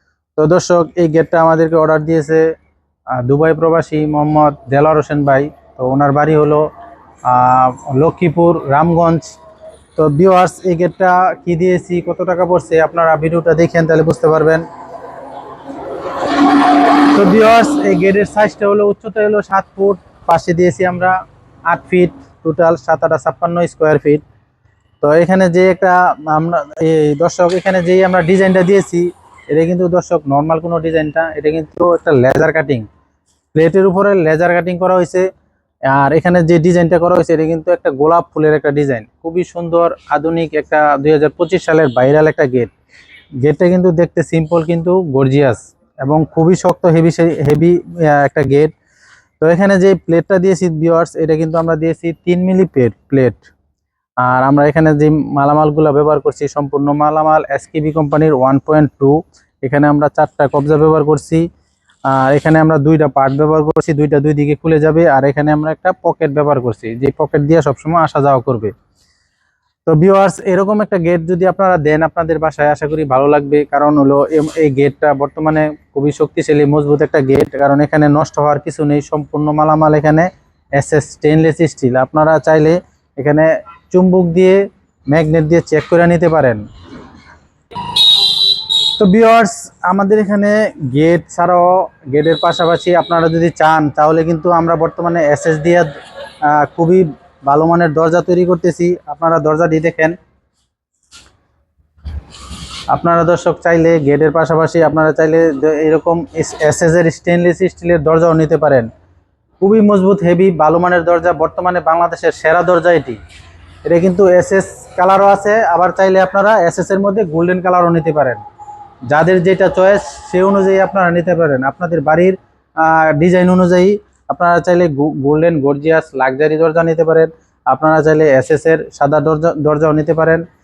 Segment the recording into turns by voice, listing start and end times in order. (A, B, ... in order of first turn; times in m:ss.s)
0:00.4-0:02.4 A
0:03.2-0:06.6 A
0:07.2-0:09.3 A
0:10.0-0:14.6 A
0:17.1-0:21.1 A
0:21.7-0:24.2 A
0:25.0-0:32.9 A
0:33.5-0:35.2 A
0:35.9-0:42.7 A
0:43.4-0:48.7 A
0:49.4-0:53.4 A
0:54.2-1:01.4 A
1:02.1-1:08.7 A
1:09.8-1:24.6 A
1:25.1-1:26.6 A
1:29.0-1:35.9 A
1:36.4-1:40.2 A
1:42.9-1:48.9 A
1:49.6-1:53.2 A
1:53.8-1:58.4 A
1:59.1-2:10.4 A